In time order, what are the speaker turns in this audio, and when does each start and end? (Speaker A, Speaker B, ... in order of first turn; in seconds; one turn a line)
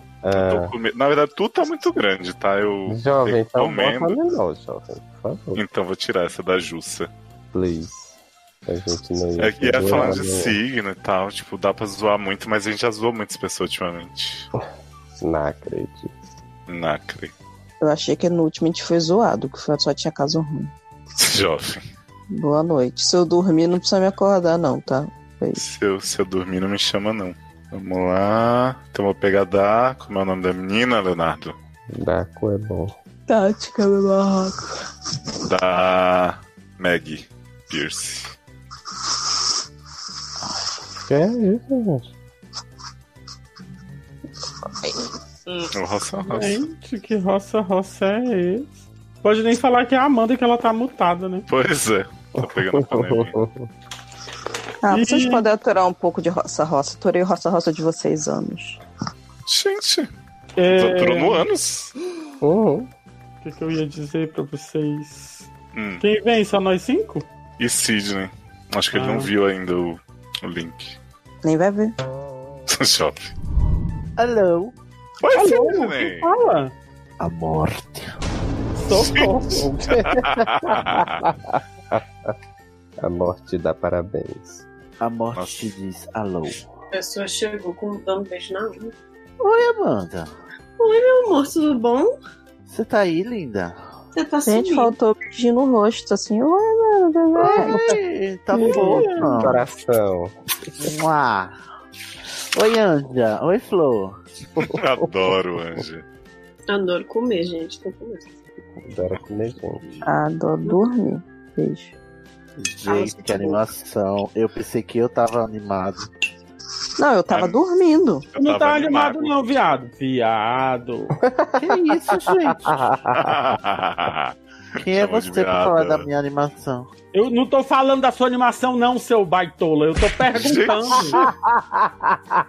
Speaker A: 0.2-0.7
Speaker B: 0.3-4.2
Speaker A: 2.9-5.6
Speaker B: 5.6-7.1
Speaker A: 7.5-8.1
Speaker A: 8.7-10.6
Speaker B: 9.4-14.5
Speaker A: 15.2-16.1
Speaker B: 16.7-17.3
Speaker C: 17.8-20.7
Speaker B: 21.1-21.8
Speaker C: 22.3-25.6
Speaker B: 25.6-31.6
Speaker A: 31.9-32.9
Speaker C: 33.3-34.6
Speaker B: 35.5-38.3
Speaker A: 41.1-42.1
Speaker B: 45.7-46.6
Speaker D: 46.3-48.7
Speaker D: 49.2-51.5
Speaker B: 51.5-53.4
Speaker A: 52.4-53.7
Speaker C: 54.8-58.8
Speaker D: 54.9-55.5
Speaker B: 59.5-60.1
Speaker D: 60.6-61.5
Speaker B: 60.7-61.9
Speaker A: 62.4-62.9
Speaker D: 63.4-65.5
Speaker B: 65.7-66.0
Speaker D: 66.0-67.2
Speaker B: 67.6-71.0
Speaker D: 68.9-69.3
Speaker C: 71.4-71.9
Speaker B: 72.7-73.3
Speaker E: 74.2-74.7
Speaker B: 75.2-76.3
Speaker D: 75.3-76.7
Speaker E: 77.2-78.1
Speaker D: 78.8-79.7
Speaker B: 79.0-79.4
Speaker A: 79.7-80.3
Speaker B: 80.1-81.2
Speaker A: 81.2-82.3
Speaker A: 83.0-84.6
Speaker E: 85.0-86.7
Speaker B: 85.3-85.7
Speaker F: 86.9-88.9
Speaker E: 89.4-90.3
Speaker F: 90.8-92.1
Speaker E: 92.7-93.8
Speaker F: 94.2-94.9
Speaker C: 94.5-97.8
Speaker E: 97.4-99.6
Speaker D: 98.6-99.3
Speaker C: 98.7-99.4
Speaker A: 99.3-100.3
Speaker E: 100.8-101.5
Speaker E: 102.5-104.2
Speaker B: 104.6-106.0
Speaker F: 106.7-108.3
Speaker A: 108.8-109.9
Speaker C: 110.0-111.9
Speaker E: 112.6-116.1
Speaker F: 112.9-113.6
Speaker C: 117.0-118.3
Speaker B: 117.3-117.6
Speaker B: 118.3-119.6
Speaker D: 118.4-121.1
Speaker A: 121.2-123.1
Speaker E: 121.6-122.8
Speaker B: 123.2-126.1
Speaker E: 124.8-126.9
Speaker D: 127.1-131.2
Speaker B: 130.3-131.2